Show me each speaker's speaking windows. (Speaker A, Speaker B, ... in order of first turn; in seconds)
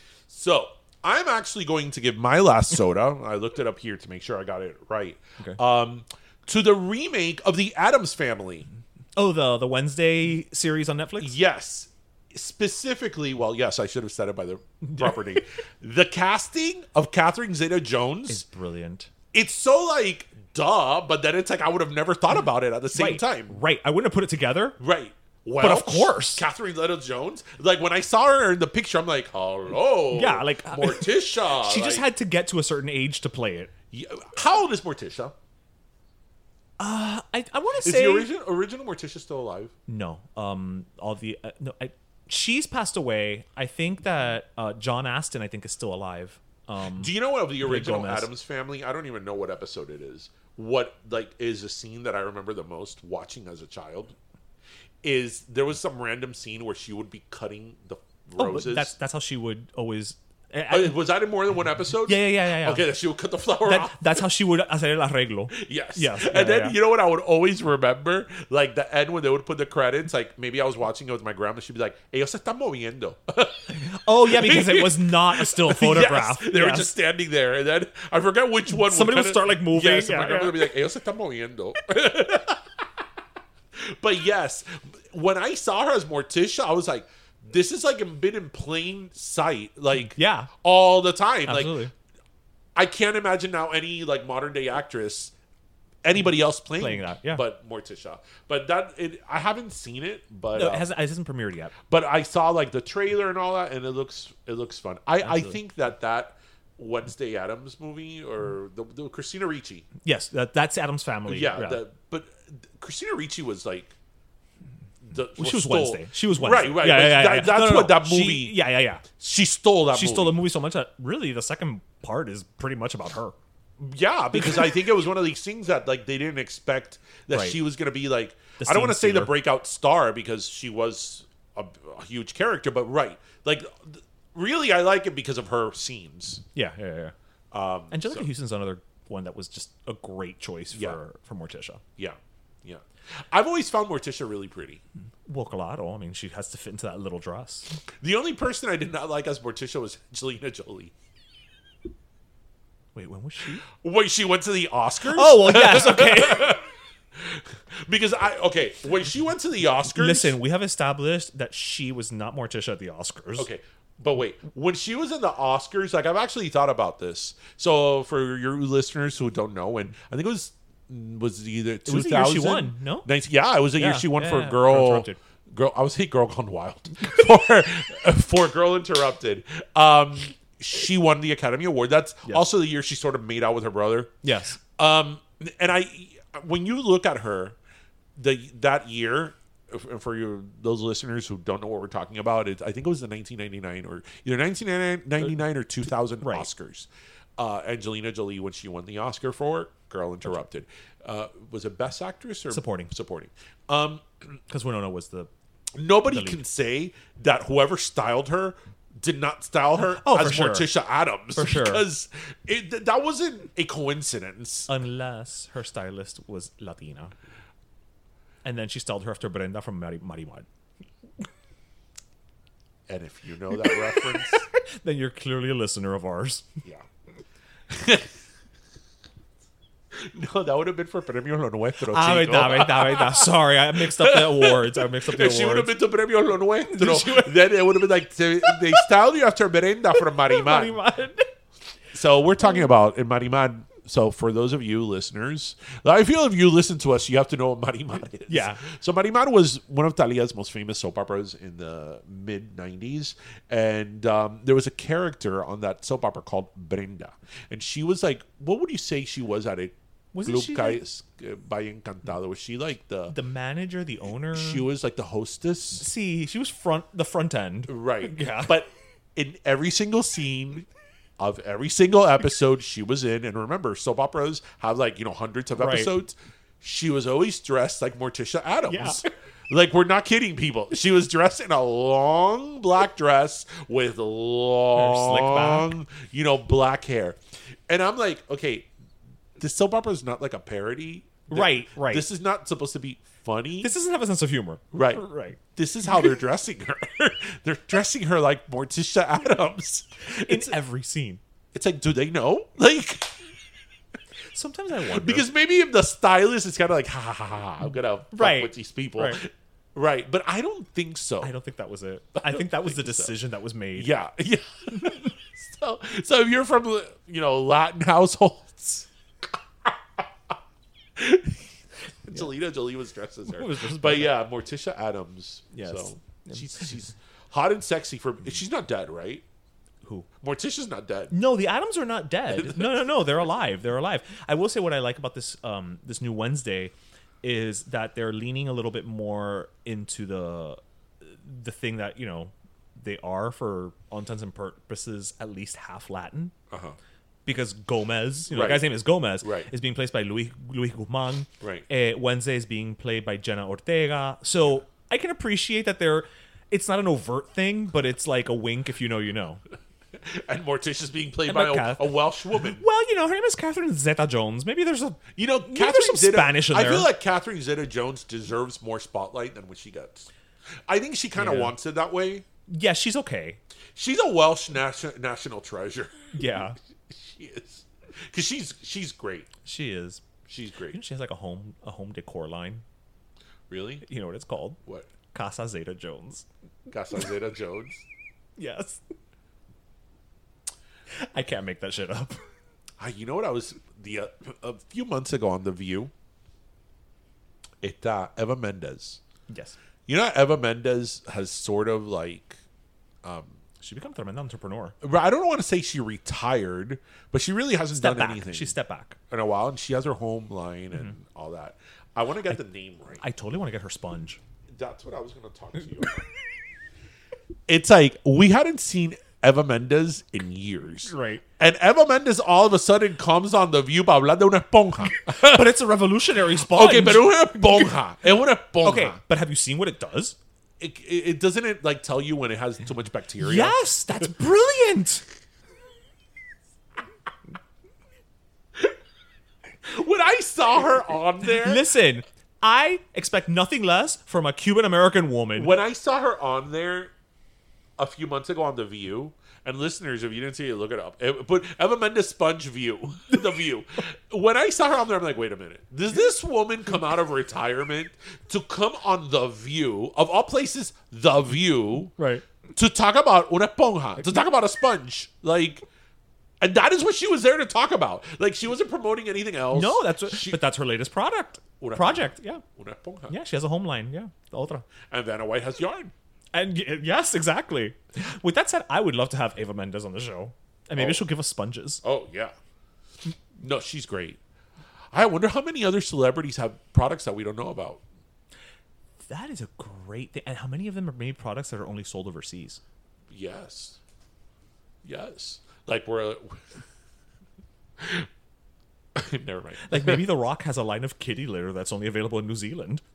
Speaker A: 0.3-8.7, 11.2-18.4, 19.3-23.6, 24.8-32.1, 33.9-35.3, 37.8-39.7, 47.0-54.1, 55.0-58.9, 60.7-64.2, 65.5-73.8, 74.3-82.8, 83.8-91.8, 92.8-95.3, 96.0-100.9, 101.9-109.9, 111.3-113.9, 115.0-120.4, 123.8-136.4, 137.5-138.3, 140.7-141.0, 142.0-144.8, 148.0-150.9, 153.8-156.7, 157.2-160.3, 163.4-184.2, 184.8-187.6, 188.2-204.0, 205.8-214.7, 222.9-224.5, 227.7-228.1, 229.9-233.3, 233.9-240.8, 241.9-263.1, 264.3-265.9, 267.7-270.7, 271.2-287.2, 287.7-288.7, 289.4-293.7, 294.7-300.5, 301.5-303.2, 304.9-311.3, 312.2-313.1, 313.8-318.9, 319.7-320.0, 321.0-321.4, 322.1-329.2, 330.2-331.1, 332.3-333.1, 346.5-346.8, 348.3-348.7, 349.2-349.5, 351.4-351.7, 360.0-362.6, 365.2-370.1, 370.7-372.2, 373.8-376.1, 376.9-379.3, 380.3-380.8, 383.5-383.9, 386.7-387.8, 392.8-395.9, 397.6-399.0, 399.9-402.4, 403.0-403.4, 404.8-408.6, 409.1-413.0, 414.5-416.1, 417.5-425.5, 426.4-429.0, 430.6-433.6, 439.7-441.6, 445.4-446.9, 447.8-461.9, 462.6-465.6, 466.4-470.4, 471.6-473.1, 474.9-475.9, 480.8-481.0, 481.8-482.3, 483.4-484.2, 484.9-487.8, 493.1-493.8, 494.8-496.4, 497.8-498.1, 498.9-500.0
Speaker B: 9.2-11.3, 14.8-15.2, 18.3-19.1, 22.9-24.8, 25.6-26.4, 30.1-33.7, 36.8-38.3, 39.9-48.3, 58.4-61.0, 62.1-62.9, 63.6-66.8, 73.7-76.9, 78.7-80.7, 90.0-90.5, 91.5-91.9, 96.8-97.4, 100.5-101.8, 105.2-105.6, 110.0-111.8, 115.4-119.0, 119.9-123.3, 124.3-124.7, 127.3-127.6, 128.6-129.3, 136.6-137.1, 137.9-141.8, 145.3-147.7, 152.9-153.6, 155.1-156.6, 159.9-163.5, 171.9-173.1, 173.8-175.2, 184.2-184.6, 202.5-202.9, 204.5-205.3, 206.1-206.4, 209.8-210.7, 211.3-211.8, 214.7-217.1, 218.4-220.5, 223.6-226.5, 231.9-235.7, 236.7-237.6, 238.4-238.9, 240.0-241.3, 242.4-242.7, 248.3-248.6, 260.1-260.8, 263.1-264.6, 265.8-268.5, 275.6-275.9, 278.7-279.1, 284.8-285.7, 291.3-292.1, 293.6-295.4, 300.1-301.2, 304.3-305.3, 308.1-309.2, 311.2-313.9, 323.3-324.1, 325.5-326.7, 331.1-346.3, 347.3-359.4, 361.3-361.9, 362.6-366.9, 371.2-371.5, 372.5-373.4, 376.1-376.6, 379.4-380.0, 380.7-382.6, 383.8-384.6, 385.1-386.3, 388.4-388.8, 391.0-392.2, 399.3-399.6, 403.6-404.8, 407.8-409.0, 413.0-414.2, 420.9-421.2, 425.2-427.7, 428.6-430.2, 433.2-435.0, 441.4-445.6, 462.0-462.2, 469.5-472.4, 473.1-474.7, 476.3-481.8, 489.1-492.6, 499.7-502.8